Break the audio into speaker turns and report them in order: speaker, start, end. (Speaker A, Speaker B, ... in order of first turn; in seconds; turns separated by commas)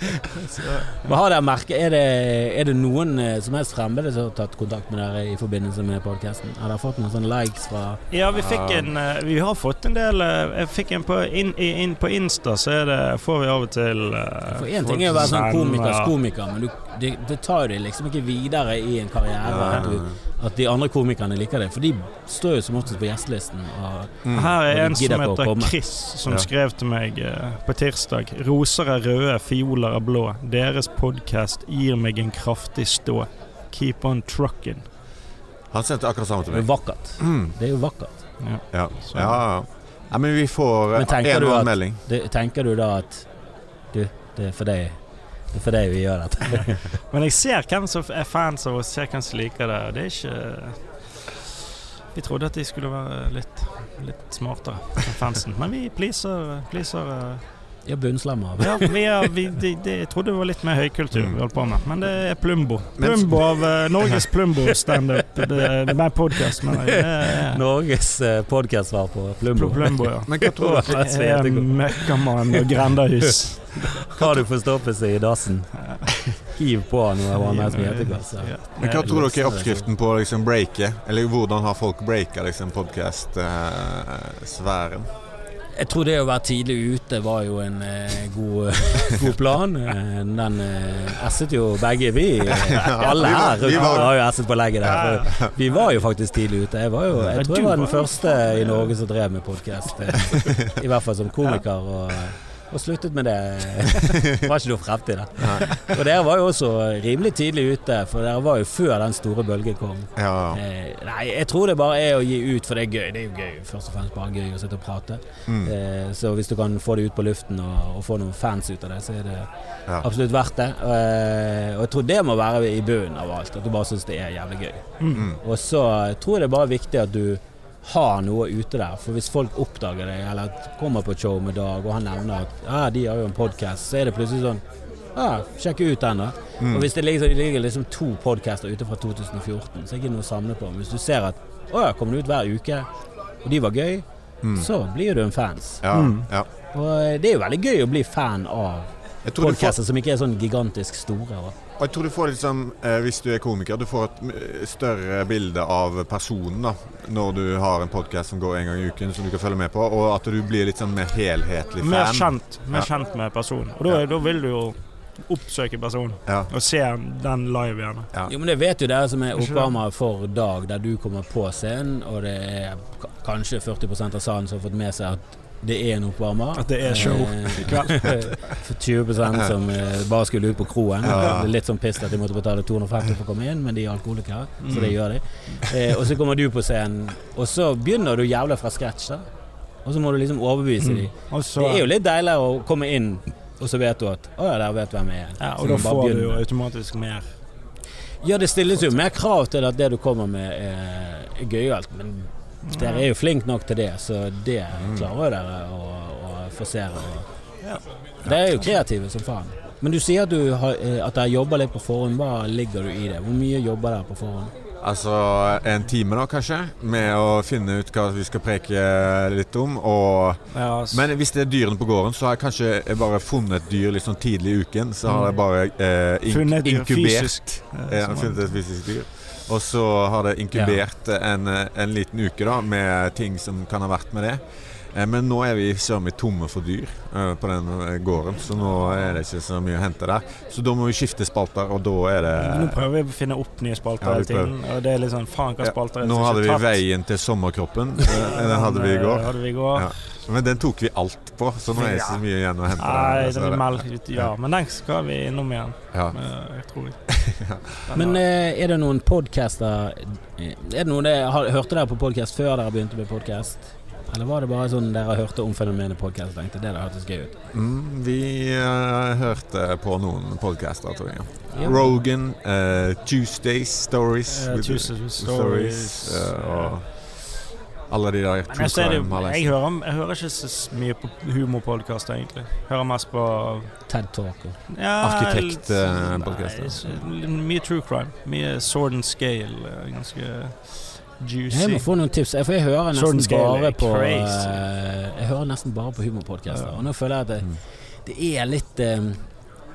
Speaker A: 0.3-1.0, Speaker B: 0.9-8.0, Speaker A: 8.1-16.1, Speaker C: 8.3-8.9, Speaker B: 14.5-25.8, Speaker C: 19.4-20.1, Speaker C: 24.2-24.6, Speaker A: 24.3-34.9, Speaker C: 35.7-37.5, Speaker B: 36.5-38.2, Speaker A: 38.4-39.4, Speaker C: 38.7-42.0, Speaker B: 41.0-43.3, Speaker B: 43.9-45.0, Speaker B: 45.5-46.9, Speaker A: 46.5-50.8, Speaker A: 52.1-57.4, Speaker B: 57.9-59.0, Speaker A: 58.6-67.6, Speaker C: 61.1-61.4, Speaker C: 63.0-64.3, Speaker B: 66.5-73.3, Speaker A: 69.5-74.1, Speaker C: 70.3-70.9, Speaker B: 73.9-79.9, Speaker A: 75.8-76.3, Speaker A: 77.4-79.1, Speaker C: 78.8-85.1, Speaker B: 85.8-119.5, Speaker C: 92.5-94.1, Speaker A: 93.0-94.1, Speaker A: 94.9-95.3, Speaker C: 95.2-95.5, Speaker A: 97.4-98.9, Speaker C: 105.4-105.7, Speaker C: 110.2-110.6, Speaker C: 115.5-115.7, Speaker B: 120.0-134.6, Speaker A: 125.0-125.3, Speaker B: 135.2-142.9, Speaker C: 136.6-136.9, Speaker B: 143.4-145.9, Speaker C: 145.8-146.5, Speaker A: 145.9-146.3, Speaker B: 146.7-151.6, Speaker C: 149.2-149.8, Speaker C: 151.8-162.9, Speaker A: 161.8-164.7, Speaker A: 165.2-168.1, Speaker B: 168.2-189.2, Speaker A: 169.4-169.7, Speaker A: 176.6-178.3, Speaker C: 181.0-181.5, Speaker A: 184.6-184.9, Speaker B: 189.8-196.4, Speaker A: 190.8-191.9, Speaker A: 195.4-197.2, Speaker B: 198.2-207.3, Speaker A: 202.7-203.1, Speaker C: 204.8-205.1, Speaker B: 208.2-214.5, Speaker C: 214.8-234.4, Speaker A: 220.5-221.1, Speaker A: 225.1-225.3, Speaker A: 226.3-228.5, Speaker A: 230.6-230.8, Speaker C: 234.9-242.8, Speaker A: 242.4-246.8, Speaker C: 244.0-244.5, Speaker C: 245.6-254.2, Speaker A: 248.0-250.0, Speaker A: 251.8-252.2, Speaker A: 252.8-257.0, Speaker C: 257.1-257.8, Speaker A: 257.9-258.2, Speaker B: 257.9-267.3, Speaker C: 267.5-277.3, Speaker A: 274.3-276.8, Speaker C: 277.9-279.5, Speaker A: 278.5-283.7, Speaker B: 283.9-284.6, Speaker A: 284.7-291.9, Speaker C: 285.0-287.1, Speaker B: 291.5-299.2, Speaker A: 292.9-294.6